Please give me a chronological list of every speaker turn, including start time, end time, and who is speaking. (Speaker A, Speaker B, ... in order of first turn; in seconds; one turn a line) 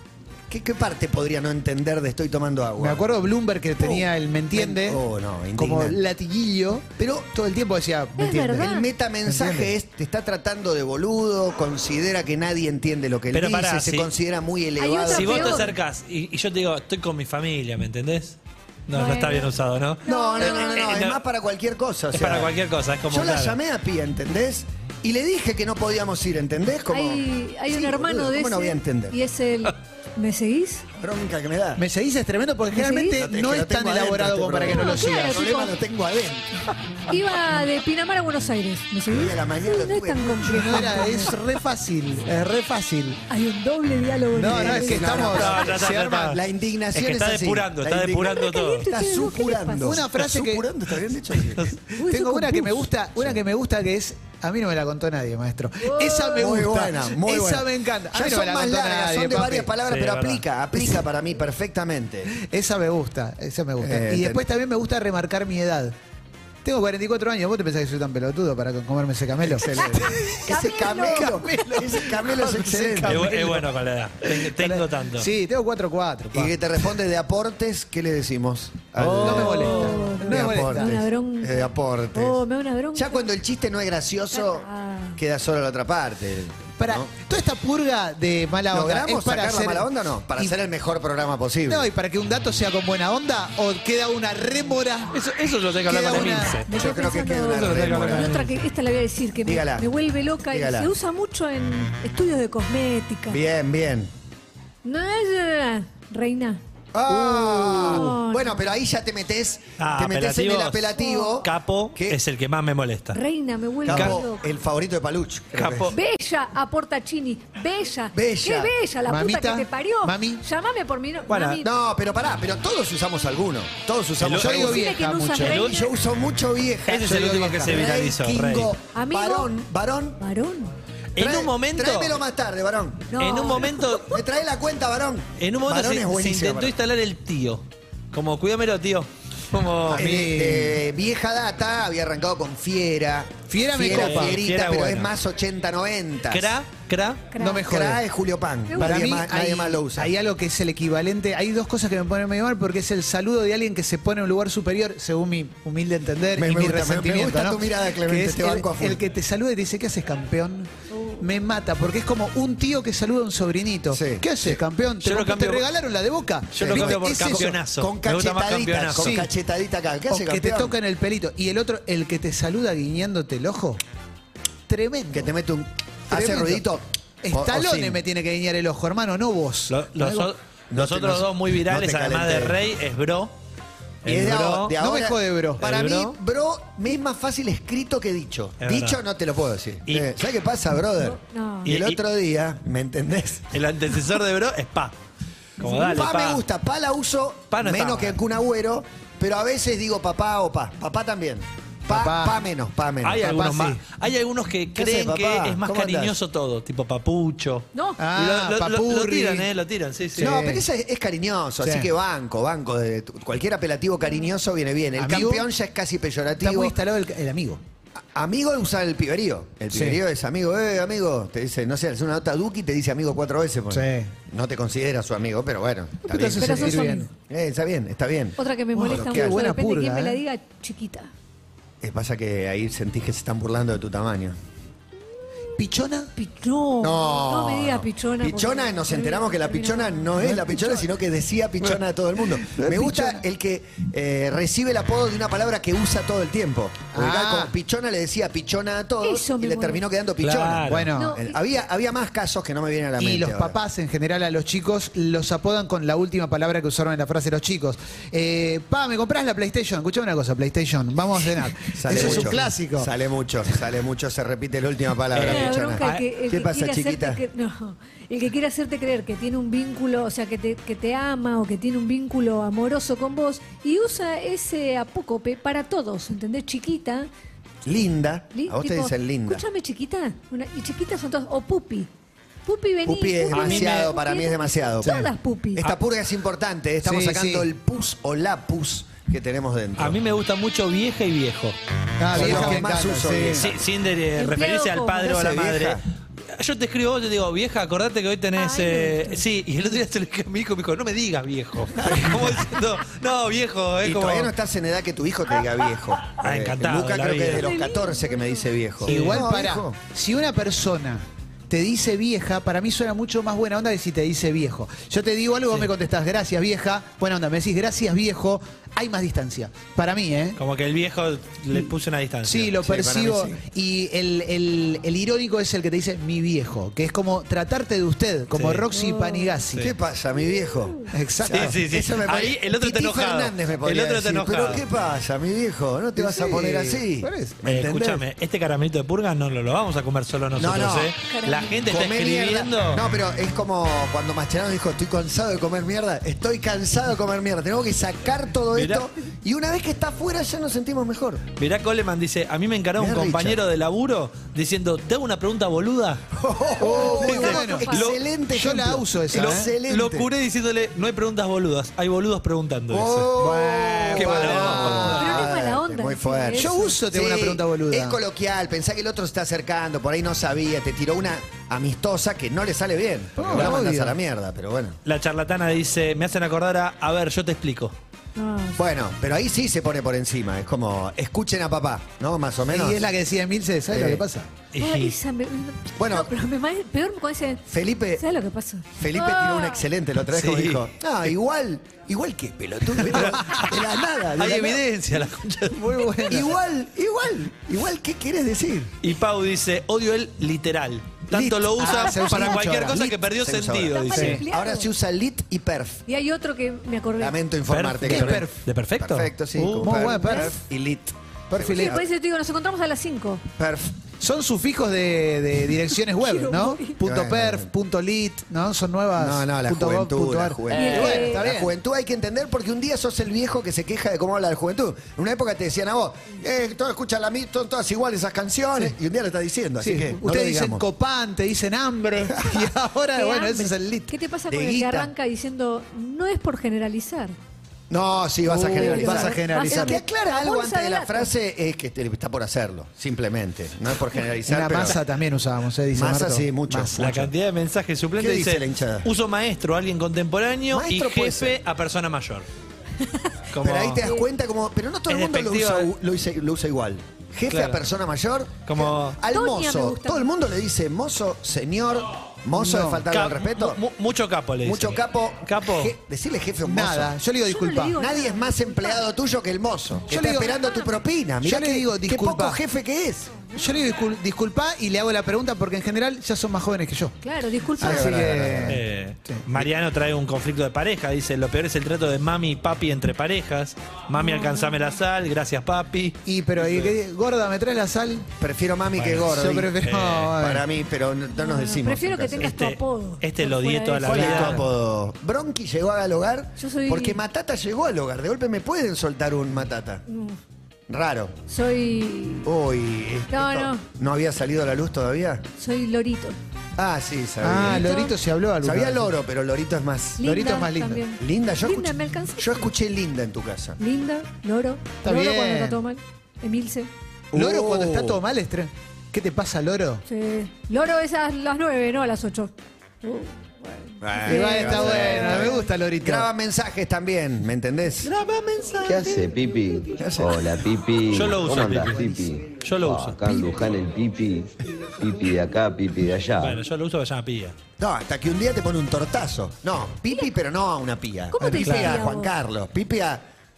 Speaker A: 0.5-3.1
Speaker B: 2.8-5.0
Speaker A: 3.8-6.0
Speaker B: 5.5-8.7
Speaker A: 7.0-7.3
Speaker C: 8.2-8.9
Speaker A: 8.5-15.7
Speaker B: 9.2-9.7
Speaker D: 13.3-14.1
Speaker C: 14.8-15.7
Speaker D: 15.1-21.2
Speaker C: 18.9-19.5
Speaker C: 20.0-21.0
Speaker A: 20.0-22.5
Speaker D: 22.1-23.6
Speaker A: 23.1-29.2
Speaker C: 26.9-30.8
Speaker A: 31.0-31.8
Speaker B: 31.8-35.4
Speaker C: 32.7-33.2
Speaker A: 33.1-36.5
Speaker C: 34.7-35.7
Speaker C: 37.1-41.3
Speaker A: 39.1-41.3
Speaker B: 40.4-43.2
Speaker C: 43.3-45.6
Speaker B: 44.3-46.4
Speaker A: 44.5-51.7
Speaker D: 45.2-46.4
Speaker D: 46.9-48.9
Speaker C: 48.3-50.0
Speaker B: 49.8-50.6
Speaker C: 52.0-52.8
Speaker B: 52.0-59.7
Speaker C: 55.8-56.6
Speaker A: 56.3-62.3
Speaker D: 59.9-60.4
Speaker B: 62.4-65.9
Speaker A: 63.8-64.4
Speaker B: 66.6-76.5
Speaker A: 69.4-73.3
Speaker C: 70.5-71.4
Speaker D: 73.0-75.3
Speaker A: 76.3-82.4
Speaker B: 79.0-81.0
Speaker C: 79.3-83.3
Speaker A: 82.9-87.1
Speaker C: 84.3-85.2
Speaker B: 86.8-89.8
Speaker A: 88.7-91.9
Speaker B: 91.7-95.2
Speaker D: 95.1-96.7
Speaker B: 95.8-96.6
Speaker C: 96.6-103.4
Speaker A: 96.7-98.4
Speaker D: 97.5-98.5
Speaker A: 99.4-99.9
Speaker A: 100.5-100.9
Speaker A: 103.3-104.1
Speaker C: 104.8-108.6
Speaker A: 106.9-112.2
Speaker D: 109.8-113.2
Speaker C: 111.0-111.4
Speaker C: 113.1-114.4
Speaker A: 113.8-115.9
Speaker D: 113.8-114.2
Speaker D: 115.5-115.9
Speaker C: 115.9-121.7
Speaker A: 118.1-118.7
Speaker B: 119.0-120.4
Speaker D: 121.3-121.6
Speaker A: 121.6-124.9
Speaker D: 124.2-124.7
Speaker B: 124.4-125.7
Speaker C: 124.6-125.9
Speaker A: 125.4-130.2
Speaker D: 125.4-125.7
Speaker D: 126.9-128.7
Speaker B: 127.0-127.8
Speaker C: 128.9-129.5
Speaker C: 130.2-130.7
Speaker D: 131.2-132.2
Speaker A: 131.2-133.2
Speaker C: 133.1-133.8
Speaker D: 133.2-134.1
Speaker A: 134.0-136.7
Speaker D: 135.4-140.3
Speaker B: 139.9-140.8
Speaker A: 139.9-146.5
Speaker B: 143.5-144.4
Speaker D: 143.8-145.1
Speaker D: 146.3-147.3
Speaker C: 147.3-147.7
Speaker B: 147.3-148.0
Speaker A: 147.6-150.1
Speaker C: 148.7-149.1
Speaker B: 148.8-167.6
Speaker A: 156.3-159.0
Speaker C: 160.9-161.2
Speaker A: 163.9-164.6
Speaker D: 165.0-165.7
Speaker D: 166.5-169.2
Speaker A: 166.6-170.8
Speaker B: 168.9-169.3
Speaker B: 170.1-173.8
Speaker B: 174.7-175.3
Speaker A: 175.1-178.0
Speaker B: 176.1-176.6
Speaker B: 177.2-180.3
Speaker D: 179.7-183.3
Speaker A: 180.7-182.6
Speaker D: 184.0-184.7
Speaker A: 184.0-193.6
Speaker B: 184.8-185.6
Speaker D: 185.6-186.2
Speaker D: 188.6-189.0
Speaker C: 191.0-191.7
Speaker D: 191.6-192.0
Speaker D: 193.5-194.9
Speaker D: 195.6-196.4
Speaker A: 195.6-203.5
Speaker D: 197.5-198.2
Speaker B: 201.9-202.4
Speaker D: 203.0-210.3
Speaker B: 203.2-203.8
Speaker A: 204.7-206.2
Speaker C: 207.7-208.0
Speaker B: 208.0-209.5
Speaker B: 210.2-210.6
Speaker A: 210.2-216.8
Speaker B: 211.6-211.9
Speaker B: 215.0-215.4
Speaker B: 216.4-217.6
Speaker A: 218.1-229.4
Speaker B: 219.7-220.0
Speaker B: 223.7-224.1
Speaker B: 226.0-227.1
Speaker C: 226.4-227.1
Speaker C: 228.4-231.1
Speaker B: 228.7-230.2
Speaker A: 231.8-234.4
Speaker B: 235.6-236.1
Speaker C: 236.1-240.8
Speaker A: 236.8-253.6
Speaker B: 240.2-240.7
Speaker B: 242.4-243.2
Speaker B: 246.9-247.5
Speaker C: 249.0-249.8
Speaker D: 250.2-250.9
Speaker B: 250.7-251.1
Speaker C: 250.9-251.4
Speaker B: 253.0-262.9
Speaker A: 261.7-267.2
Speaker D: 265.1-266.1
Speaker C: 265.2-277.1
Speaker A: 277.6-279.4
Speaker C: 278.3-281.9
Speaker C: 282.4-285.7
Speaker A: 282.8-290.0
Speaker D: 283.3-283.7
Speaker B: 284.8-285.1
Speaker B: 286.8-287.5
Speaker D: 289.8-291.6
Speaker B: 292.0-293.5
Speaker A: 292.1-293.5
Speaker D: 292.1-292.6
Speaker D: 293.4-295.8
Speaker C: 294.2-295.1
Speaker A: 295.0-295.8
Speaker D: 296.4-304.3
Speaker C: 298.4-299.2
Speaker A: 301.8-302.4
Speaker A: 303.8-309.8
Speaker D: 306.1-307.5
Speaker C: 307.3-308.5
Speaker D: 308.8-309.3
Speaker B: 308.8-320.4
Speaker D: 320.4-322.6
Speaker B: 322.2-329.7
Speaker A: 322.6-323.4
Speaker D: 328.3-328.7
Speaker C: 328.7-329.3
Speaker A: 329.6-338.0
Speaker B: 330.9-331.6
Speaker D: 331.3-334.6
Speaker B: 336.0-337.4
Speaker D: 337.4-342.8
Speaker A: 340.4-340.9
Speaker C: 341.1-341.6
Speaker A: 341.6-351.2
Speaker D: 348.5-348.9
Speaker D: 351.4-356.0
Speaker A: 352.8-353.4
Speaker A: 356.1-360.1
Speaker B: 356.6-357.8
Speaker C: 356.6-357.9
Speaker D: 357.2-357.9
Speaker B: 358.3-359.5
Speaker D: 359.1-363.1
Speaker A: 362.7-374.8
Speaker B: 363.1-365.2
Speaker D: 363.9-365.1
Speaker C: 364.9-366.8
Speaker B: 366.3-368.0
Speaker B: 373.2-373.9
Speaker D: 374.8-377.7
Speaker C: 378.2-378.6
Speaker A: 378.6-382.9
Speaker B: 382.5-384.3
Speaker A: 383.7-384.0
Speaker D: 384.5-384.9
Speaker C: 384.6-387.4
Speaker A: 385.8-386.1
Speaker A: 387.5-388.0
Speaker C: 388.0-389.6
Speaker A: 388.8-394.6
Speaker D: 390.1-390.6
Speaker D: 392.9-393.6
Speaker B: 392.9-393.3
Speaker D: 394.1-395.9
Speaker B: 395.5-396.4
Speaker A: 396.1-398.7
Speaker D: 398.8-404.2
Speaker A: 401.1-405.8
Speaker B: 401.6-402.9
Speaker C: 403.7-404.7
Speaker B: 403.9-404.2
Speaker C: 405.9-407.2
Speaker A: 407.0-411.8
Speaker D: 407.5-409.9
Speaker B: 407.9-408.3
Speaker B: 409.5-410.4
Speaker B: 411.3-411.8
Speaker C: 411.5-413.2
Speaker A: 413.4-413.7
Speaker B: 414.0-421.5
Speaker C: 416.0-416.8
Speaker A: 416.8-417.5
Speaker A: 419.0-430.6
Speaker C: 420.5-421.2
Speaker B: 429.6-433.9
Speaker C: 432.9-437.1
Speaker A: 434.3-434.9
Speaker A: 437.7-444.8
Speaker B: 438.2-439.8
Speaker C: 438.5-441.1
Speaker B: 444.2-446.7
Speaker A: 445.7-447.1
Speaker D: 446.8-452.3
Speaker A: 448.0-448.9
Speaker A: 450.5-451.4
Speaker D: 453.3-453.8
Speaker A: 453.4-463.6
Speaker D: 454.9-455.7
Speaker D: 457.3-457.6
Speaker D: 458.4-459.0
Speaker C: 459.1-460.1
Speaker B: 462.3-462.8
Speaker D: 462.9-465.7
Speaker A: 464.4-467.0
Speaker B: 466.4-467.8
Speaker C: 467.2-468.9
Speaker A: 467.7-473.1
Speaker B: 469.9-470.4
Speaker C: 470.4-470.7
Speaker B: 471.2-472.4
Speaker C: 473.1-473.5
Speaker B: 473.3-476.9
Speaker C: 477.0-478.1
Speaker A: 477.6-478.6
Speaker B: 477.6-479.2
Speaker D: 478.5-486.7
Speaker C: 483.9-484.6
Speaker B: 486.1-488.1
Speaker A: 488.2-489.5
Speaker D: 488.8-490.1
Speaker B: 489.0-490.4
Speaker A: 490.1-492.3
Speaker C: 491.1-494.1
Speaker D: 492.2-494.4
Speaker A: 493.8-499.8
Speaker C: 496.4-497.0
Speaker C: 499.9-500.2
Speaker A: 500.7-501.1
Speaker C: 501.3-502.3
Speaker A: 502.2-505.2
Speaker C: 503.1-503.6
Speaker C: 505.4-506.2
Speaker A: 506.6-510.1
Speaker B: 507.2-508.9
Speaker C: 507.4-507.9
Speaker C: 510.0-512.5
Speaker B: 510.0-510.8
Speaker A: 511.0-513.6
Speaker C: 513.6-516.7
Speaker B: 514.8-515.6
Speaker A: 517.1-518.0
Speaker B: 517.1-519.8
Speaker C: 519.9-525.5
Speaker A: 523.8-528.5
Speaker B: 524.0-526.1
Speaker E: 528.6-536.4
Speaker A: 529.8-530.2
Speaker D: 530.9-533.0
Speaker D: 536.2-537.3
Speaker A: 537.6-543.0
Speaker C: 541.1-542.1
Speaker B: 541.2-541.7
Speaker D: 541.5-541.7